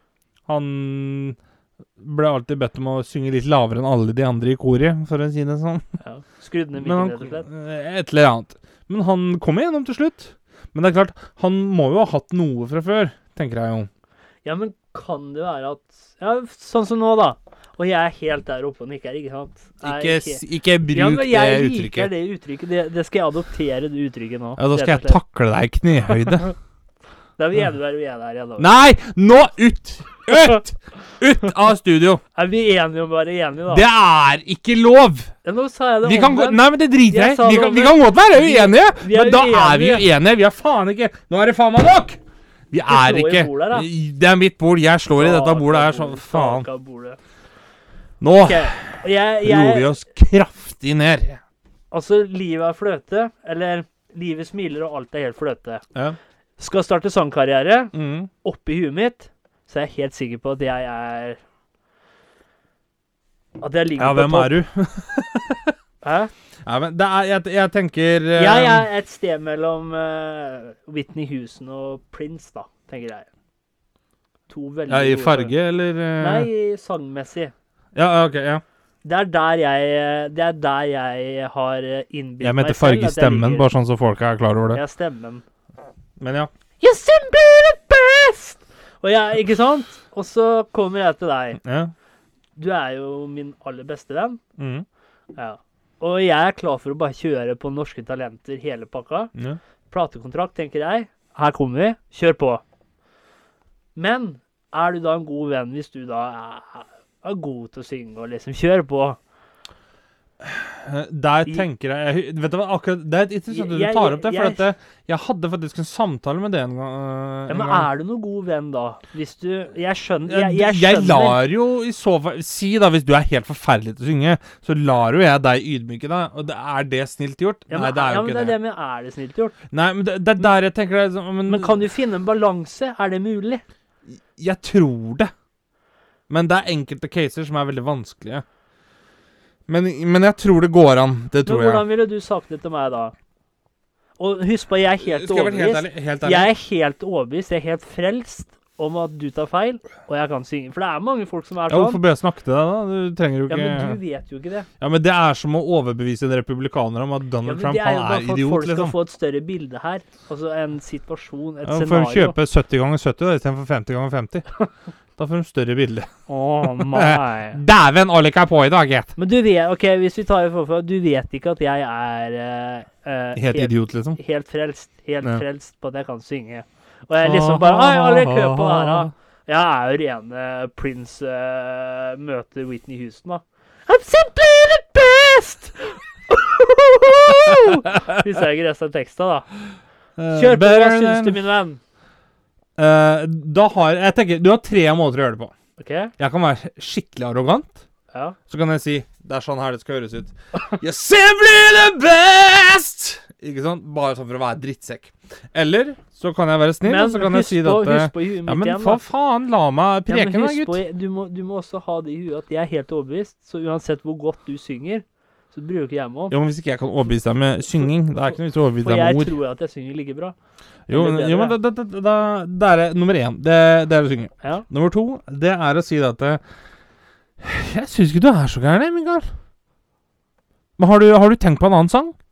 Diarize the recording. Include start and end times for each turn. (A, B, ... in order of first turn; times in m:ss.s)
0:00.5-0:01.4 A
0:02.0-0:05.8 A
0:06.0-0:07.5 B
0:06.8-0:13.9 A
0:14.4-0:25.2 B
0:19.8-0:22.1 A
0:24.6-0:26.5 A
0:27.4-0:28.7 B
0:28.6-0:32.2 A
0:30.3-0:30.6 B
0:32.3-0:33.8 B
0:33.7-0:35.3 A
0:35.4-0:40.1 B
0:36.0-0:42.2 A
0:42.7-0:46.7 A
0:42.9-0:43.9 B
0:45.2-0:47.2 B
0:48.2-0:51.4 A
0:48.4-0:49.9 B
0:51.9-0:55.8 B
0:56.6-1:01.4 B
0:57.9-0:58.3 A
1:03.6-1:04.6 B
1:04.0-1:05.7 A
1:06.0-1:06.3 B
1:06.6-1:08.8 A
1:08.4-1:13.3 B
1:14.5-1:15.5 B
1:14.9-1:16.5 A
1:16.2-1:17.5 B
1:17.9-1:18.6 A
1:19.0-1:23.7 B
1:22.4-1:24.8 A
1:24.7-1:25.4 B
1:26.2-1:26.5 A
1:26.8-1:31.6 B
1:31.6-1:31.9 A
1:32.6-1:34.4 B
1:34.6-1:34.8 A
1:35.4-1:39.3 B
1:39.9-1:42.6 B
1:44.0-1:49.2 B
1:50.4-1:57.9 A
1:53.5-1:54.6 B
1:57.5-2:01.4 B
2:00.3-2:08.6 A
2:07.7-2:09.6 B
2:09.7-2:11.8 A
2:11.5-2:13.6 B
2:14.4-2:15.3 A
2:16.3-2:18.4 A
2:19.7-2:21.8 A
2:21.4-2:23.1 B
2:24.2-2:32.0 B
2:25.0-2:26.5 A
2:31.7-2:34.0 A
2:33.5-2:34.7 B
2:34.8-2:38.9 A
2:37.4-2:42.4 B
2:41.6-2:44.5 A
2:45.2-2:46.1 A
2:46.3-2:47.6 B
2:46.6-2:49.1 A
2:49.2-3:09.4 B
2:53.3-2:54.2 A
2:57.2-2:59.1 A
3:07.4-3:08.0 A
3:10.2-3:11.4 A
3:10.3-3:11.8 B
3:12.8-3:15.5 A
3:15.8-3:16.1 B
3:16.2-3:17.8 A
3:18.1-3:18.4 B
3:18.5-3:30.8 A
3:26.8-3:29.0 B
3:30.1-3:36.3 B
3:36.3-3:39.3 A
3:38.8-3:40.3 B
3:40.9-3:46.4 A
3:40.9-3:41.6 B
3:47.4-3:49.2 A
3:50.8-3:52.1 A